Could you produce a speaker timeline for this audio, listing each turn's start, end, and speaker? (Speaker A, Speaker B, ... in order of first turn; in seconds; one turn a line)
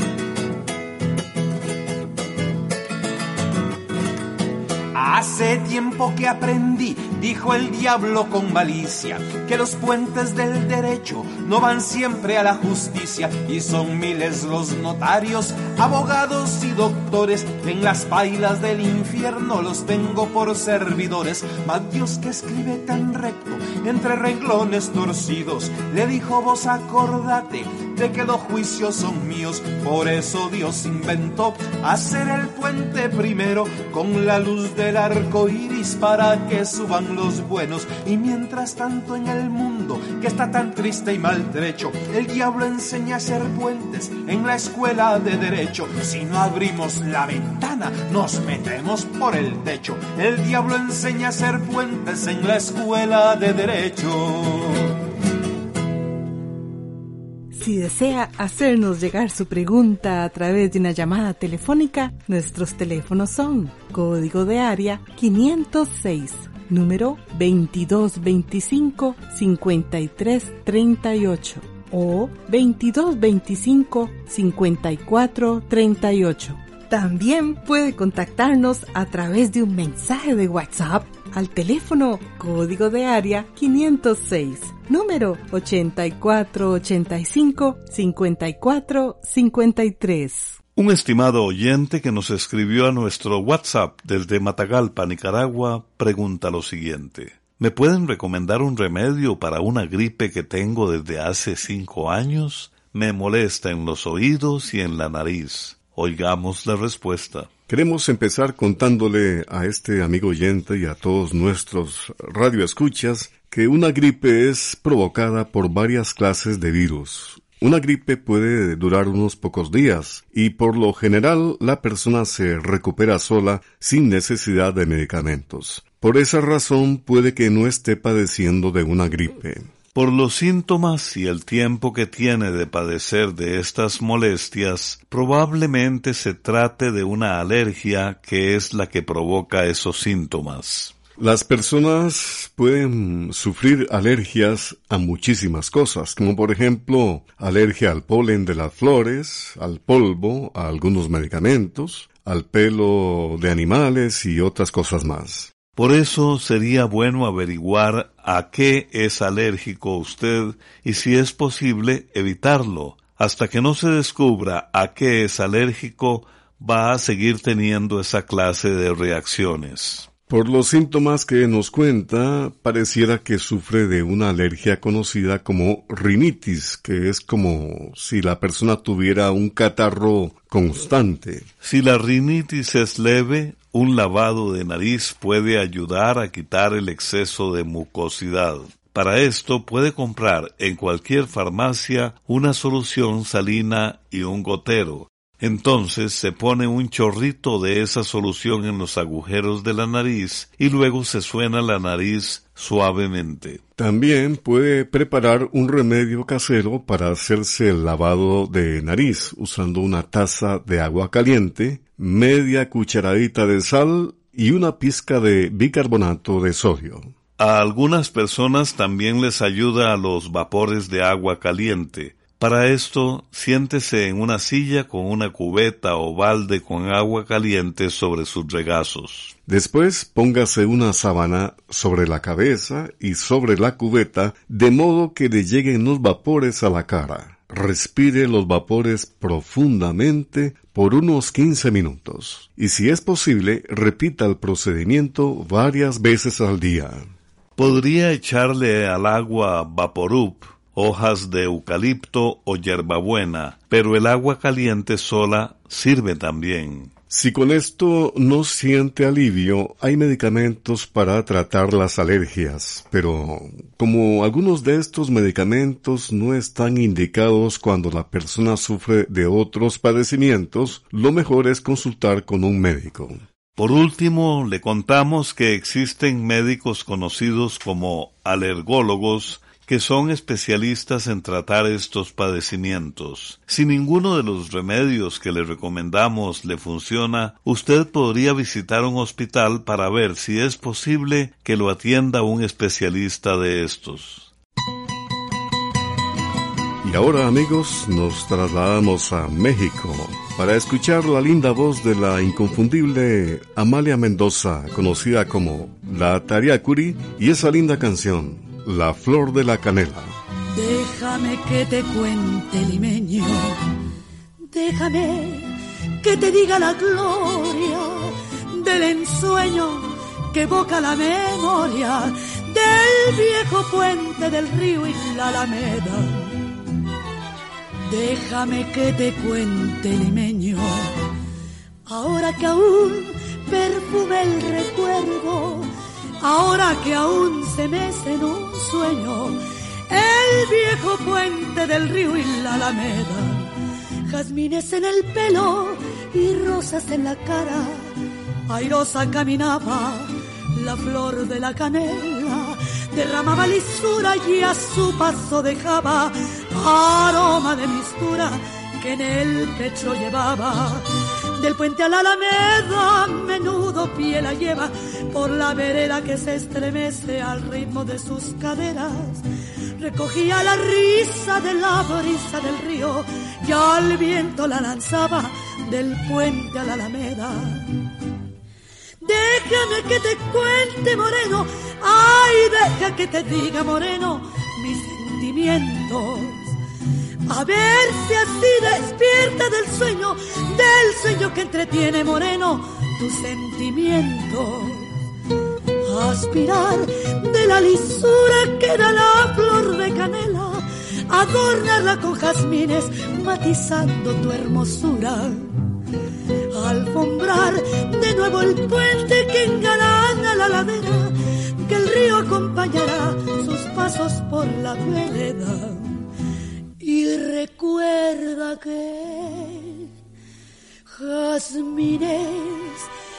Speaker A: 4.9-54.9
Speaker B: 57.5-90.6
Speaker C: 90.8-107.5
Speaker D: 107.7-129.7
Speaker C: 129.9-140.9
Speaker D: 141.2-155.5
Speaker C: 155.8-170.1
Speaker D: 170.3-181.5
Speaker C: 181.6-203.6
Speaker D: 203.8-217.1
Speaker C: 217.4-229.3
Speaker D: 229.5-247.1
Speaker C: 247.6-256.9
Speaker D: 257.1-273.2
Speaker C: 273.6-294.3
Speaker D: 296.8-310.2
Speaker E: 310.5-313.6
Speaker E: 314.5-326.4
Speaker E: 327.9-331.0
Speaker E: 331.9-343.5
Speaker E: 344.1-347.9
Speaker E: 348.5-369.2
Speaker E: 369.8-377.7
Speaker E: 379.0-386.5
Speaker E: 387.3-394.9
Speaker E: 395.9-405.6
Speaker E: 406.5-416.1
Speaker E: 416.8-419.9
Speaker E: 420.9-422.9